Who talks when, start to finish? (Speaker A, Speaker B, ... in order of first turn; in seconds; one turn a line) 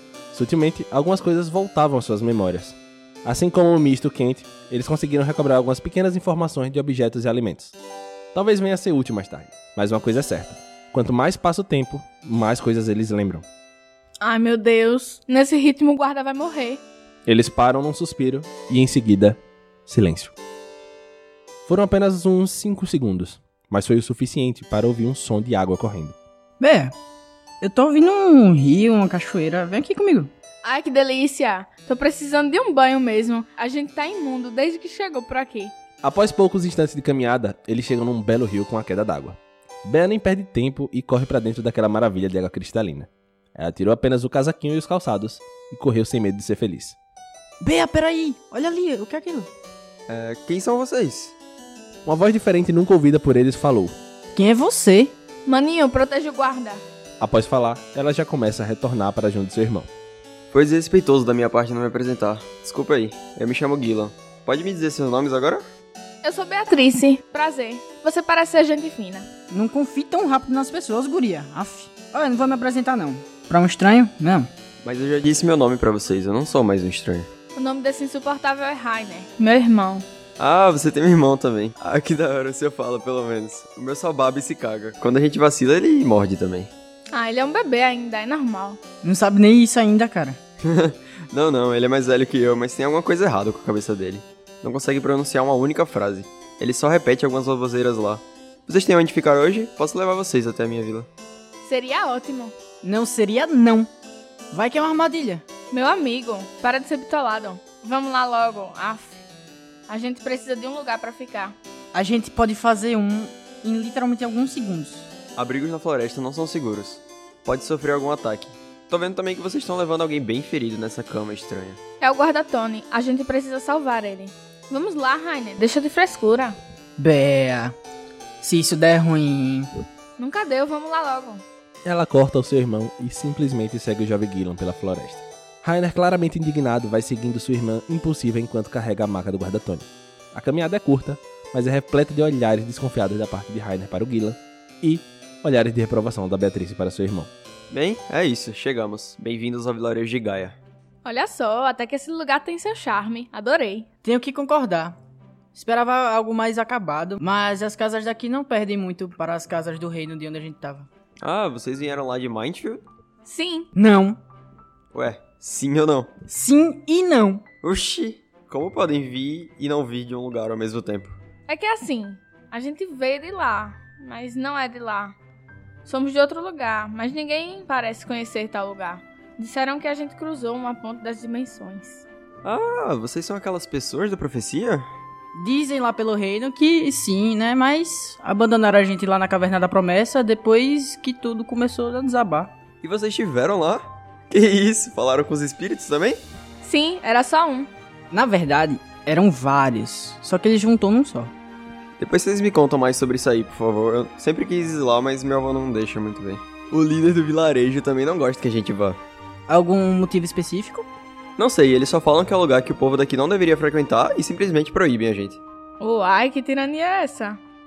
Speaker A: 0.3-7.8
Speaker A: 8.3-13.4
Speaker B: 14.2-16.8
Speaker A: 17.3-20.3
Speaker A: 21.7-26.2
Speaker C: 26.6-26.9
Speaker C: 27.6-30.3
Speaker B: 30.6-35.7
Speaker A: 36.0-47.0
Speaker C: 47.6-49.5
Speaker D: 50.1-51.3
Speaker A: 52.1-54.0
Speaker C: 54.4-55.1
Speaker B: 55.5-56.8
Speaker A: 57.2-59.9
Speaker D: 60.5-65.7
Speaker B: 66.2-69.3
Speaker C: 69.5-74.5
Speaker D: 74.8-77.3
Speaker B: 77.6-80.0
Speaker D: 80.4-86.7
Speaker B: 87.1-88.8
Speaker C: 89.0-90.4
Speaker D: 90.6-101.1
Speaker B: 101.6-102.5
Speaker C: 102.8-103.9
Speaker C: 104.5-105.4
Speaker B: 105.7-109.2
Speaker B: 109.9-111.5
Speaker C: 111.9-115.1
Speaker D: 115.4-121.8
Speaker B: 122.0-126.6
Speaker C: 127.0-127.7
Speaker C: 128.4-129.7
Speaker B: 130.2-131.4
Speaker A: 131.8-147.3
Speaker D: 147.7-150.6
Speaker B: 151.1-153.9
Speaker C: 154.0-155.0
Speaker C: 155.5-160.9
Speaker D: 161.2-162.8
Speaker B: 163.2-163.7
Speaker C: 163.8-164.2
Speaker D: 164.9-166.1
Speaker C: 166.3-167.4
Speaker D: 167.6-171.2
Speaker B: 171.5-175.2
Speaker B: 175.8-182.0
Speaker D: 182.4-184.9
Speaker C: 185.3-192.5
Speaker D: 192.8-196.2
Speaker B: 196.6-197.7
Speaker C: 198.1-201.3
Speaker D: 202.0-209.0
Speaker C: 209.5-210.9
Speaker D: 211.4-215.4
Speaker B: 215.8-217.4